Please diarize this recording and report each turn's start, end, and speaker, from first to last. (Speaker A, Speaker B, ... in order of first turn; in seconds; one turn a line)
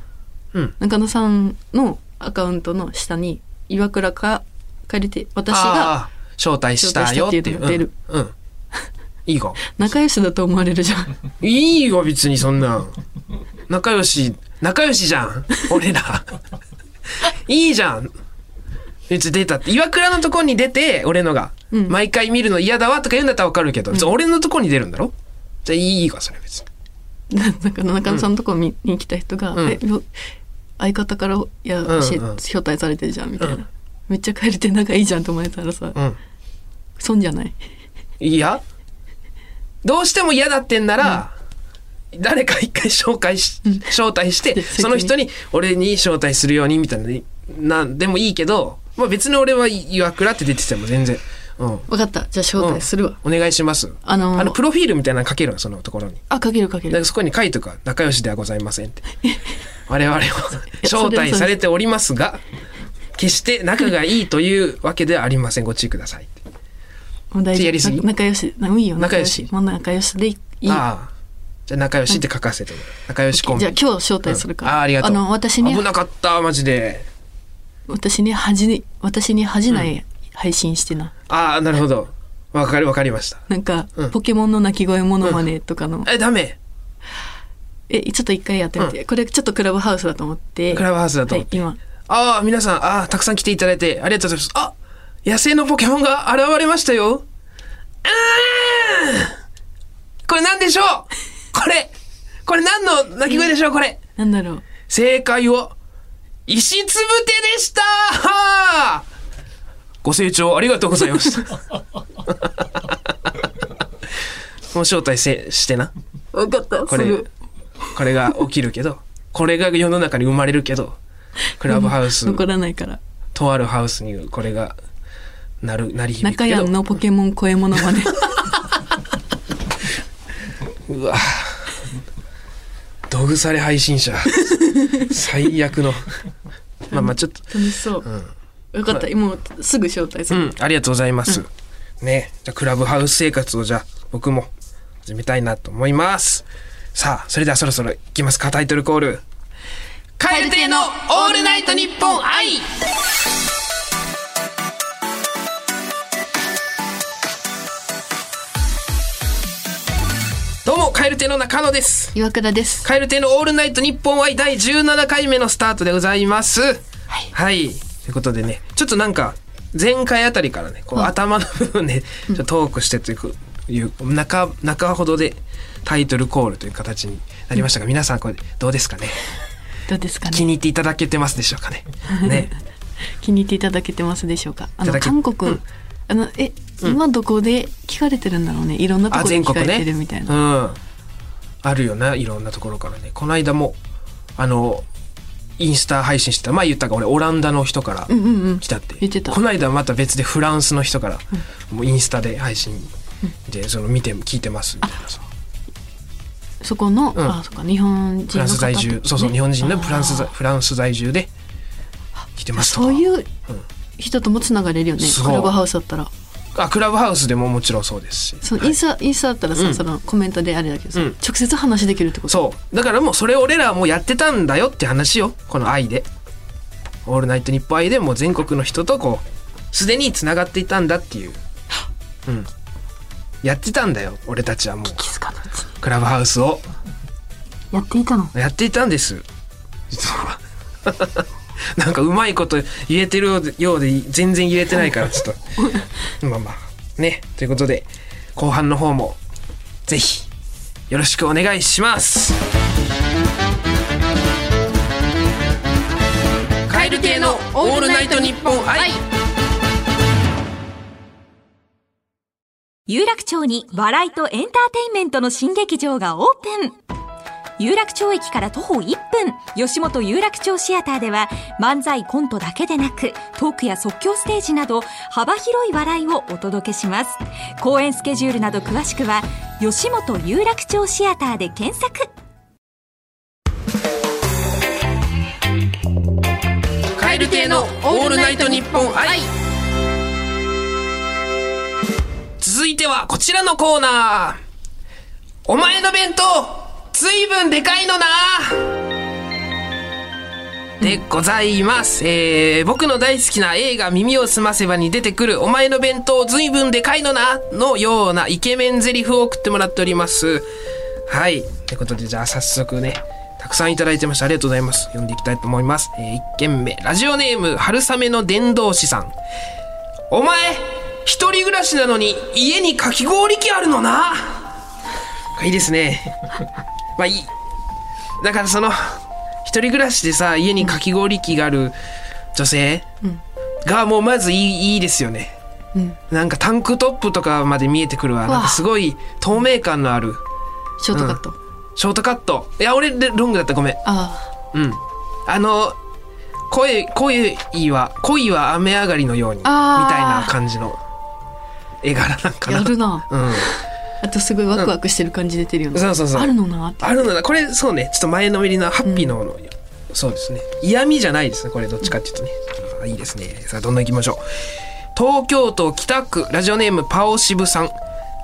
Speaker A: 0.8-6.0
Speaker B: 5.5-8.3
Speaker A: 6.8-7.9
Speaker B: 9.2-9.8
Speaker A: 9.6-11.2
Speaker B: 11.4-13.0
Speaker B: 13.7-16.4
Speaker B: 17.2-18.1
Speaker B: 19.1-26.7
Speaker A: 27.3-30.1
Speaker A: 30.8-36.0
Speaker B: 31.9-32.4
Speaker A: 37.0-37.6
Speaker B: 38.2-38.6
Speaker B: 39.8-41.3
Speaker B: 42.1-51.9
Speaker A: 44.5-45.1
Speaker A: 51.9-53.2
Speaker B: 52.6-56.2
Speaker A: 54.0-54.6
Speaker A: 56.3-57.0
Speaker B: 56.9-59.0
Speaker B: 59.9-62.4
Speaker A: 60.8-61.5
Speaker B: 63.1-66.4
Speaker A: 67.3-70.8
Speaker B: 67.5-68.1
Speaker B: 69.0-69.5
Speaker B: 70.7-71.1
Speaker B: 71.7-77.1
Speaker A: 73.3-75.9
Speaker A: 77.9-81.1
Speaker B: 81.3-83.5
Speaker A: 83.5-86.1
Speaker B: 86.0-86.6
Speaker A: 87.9-91.8
Speaker B: 90.7-97.2
Speaker B: 98.0-99.4
Speaker B: 100.2-101.9
Speaker B: 102.5-104.0
Speaker A: 104.2-104.6
Speaker B: 104.9-105.8
Speaker B: 106.5-109.1
Speaker B: 110.0-111.6
Speaker B: 112.3-113.0
Speaker B: 114.7-115.9
Speaker A: 116.3-117.3
Speaker B: 116.9-117.2
Speaker B: 117.9-121.0
Speaker B: 121.6-122.4
Speaker A: 121.7-123.0
Speaker B: 123.3-124.8
Speaker B: 125.6-126.7
Speaker A: 126.2-128.6
Speaker B: 130.9-131.7
Speaker B: 133.1-136.1
Speaker A: 134.6-135.1
Speaker B: 136.9-137.5
Speaker A: 136.9-138.1
Speaker A: 138.7-140.5
Speaker B: 140.3-141.5
Speaker B: 142.0-144.5
Speaker B: 145.0-149.2
Speaker B: 150.2-152.8
Speaker A: 150.3-152.2
Speaker B: 160.6-162.2
Speaker A: 162.1-162.9
Speaker B: 162.8-179.2
Speaker A: 179.9-180.5
Speaker B: 180.3-182.5
Speaker A: 182.1-182.5
Speaker A: 183.2-190.4
Speaker B: 184.8-185.6
Speaker B: 189.1-190.8
Speaker B: 191.6-193.8
Speaker B: 194.4-194.8
Speaker B: 195.6-202.9
Speaker A: 198.1-199.4
Speaker B: 203.4-205.3
Speaker A: 206.6-210.3
Speaker B: 208.3-211.3
Speaker B: 212.4-213.6
Speaker A: 212.5-213.3
Speaker A: 214.0-216.1
Speaker B: 215.0-215.6
Speaker B: 216.5-218.8
Speaker A: 218.4-222.5
Speaker B: 219.6-219.8
Speaker B: 222.3-226.1
Speaker B: 227.0-231.4
Speaker B: 233.4-235.0
Speaker A: 235.0-235.7
Speaker B: 235.8-236.7
Speaker A: 237.7-238.3
Speaker B: 238.3-239.2
Speaker B: 239.9-245.4
Speaker B: 246.2-249.2
Speaker B: 249.9-250.3
Speaker B: 250.9-252.4
Speaker B: 256.7-259.0
Speaker C: 262.9-266.8
Speaker C: 267.6-282.1
Speaker B: 286.9-289.3
Speaker B: 292.4-294.4
Speaker B: 295.5-298.8
Speaker B: 300.8-310.5
Speaker B: 311.1-319.1
Speaker B: 320.1-324.5
Speaker B: 325.4-326.4
Speaker B: 327.0-327.3
Speaker B: 328.2-331.8
Speaker B: 332.3-332.9
Speaker B: 333.6-335.4
Speaker B: 336.1-340.2
Speaker A: 338.2-338.6
Speaker A: 340.8-341.4
Speaker B: 340.9-341.2
Speaker B: 341.8-343.8
Speaker A: 343.8-344.3
Speaker B: 344.5-345.8
Speaker B: 346.5-350.8
Speaker A: 349.4-350.4
Speaker B: 351.8-353.5
Speaker A: 352.5-357.1
Speaker B: 355.7-364.2
Speaker A: 358.8-359.2
Speaker B: 364.9-367.8